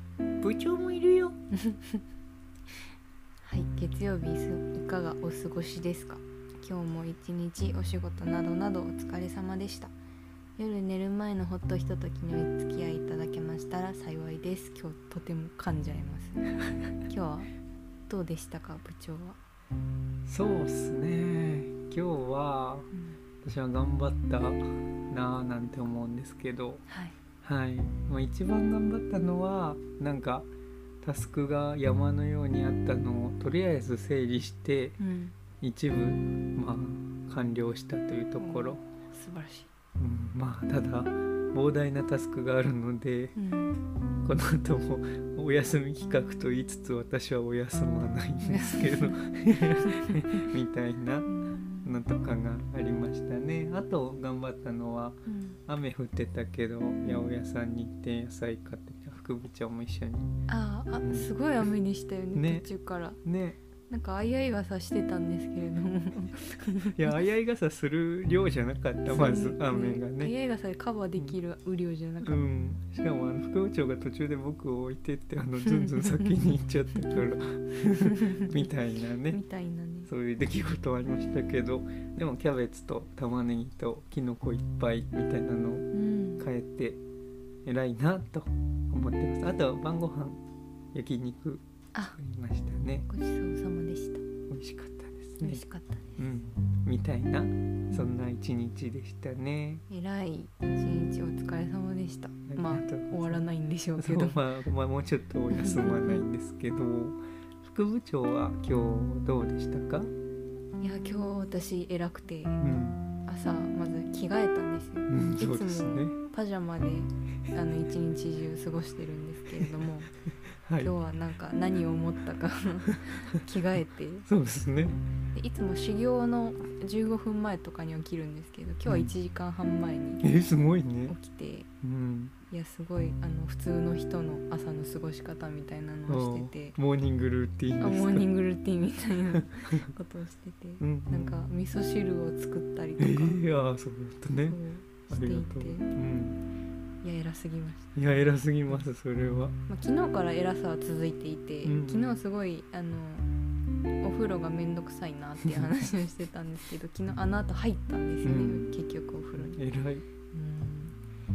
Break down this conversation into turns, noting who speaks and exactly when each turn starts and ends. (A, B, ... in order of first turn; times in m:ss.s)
0:00.4-0:01.4 A
0:01.6-0:02.0 B
0:03.4-0:09.9 B
0:10.6-0:17.5 B
0:18.1-0:19.4 B
0:20.2-0:22.9 A
0:23.4-0:26.8 A
0:26.9-0:27.2 B
0:27.4-0:30.5 A
0:31.0-0:35.0 A
0:35.0-0:35.3 B
0:35.6-0:38.8 A
0:38.4-0:39.7 B
0:40.0-0:43.4 A
0:43.4-0:43.8 B
0:44.2-0:51.3 A
0:48.4-0:50.2 B
0:51.3-0:52.0 B
0:51.8-1:00.4 A
0:55.2-0:55.6 B
0:57.0-0:57.3 B
1:00.5-1:03.2 B
1:00.9-1:01.3 A
1:02.3-1:02.7 A
1:03.2-1:03.6 A
1:03.9-1:07.2 B
1:06.9-1:10.3 A
1:09.0-1:12.5 B
1:12.2-1:19.4 A
1:15.6-1:16.3 B
1:18.0-1:18.6 B
1:19.3-1:20.1 B
1:20.1-1:25.9 A
1:25.9-1:26.4 B
1:26.4-1:27.0 A
1:27.6-1:30.4 A
1:30.9-1:33.1 A
1:33.1-1:34.2 B
1:34.5-1:35.6 A
1:35.4-1:36.2 B
1:36.2-1:39.8 A
1:39.9-1:44.4 B
1:42.5-1:43.4 A
1:44.0-1:50.1 A
1:45.5-1:46.2 B
1:50.8-1:52.6 B
1:52.6-1:53.0 A
1:53.2-2:00.1 B
1:55.1-1:56.1 A
2:00.6-2:00.9 A
2:00.8-2:04.3 B
2:04.2-2:05.0 A
2:05.3-2:10.2 B
2:08.8-2:09.1 A
2:10.2-2:11.1 A
2:11.1-2:11.7 B
2:11.8-2:12.3 A
2:12.5-2:16.8 B
2:16.1-2:18.3 A
2:17.8-2:23.4 B
2:19.3-2:19.9 A
2:20.8-2:21.4 A
2:23.0-2:26.4 A
2:24.4-2:25.9 B
2:27.0-2:27.9 B
2:27.9-2:29.6 A
2:29.7-2:33.3 B
2:31.6-2:32.2 A
2:34.0-2:39.6 B
2:38.2-2:38.8 A
2:39.3-2:40.0 A
2:40.3-2:41.0 B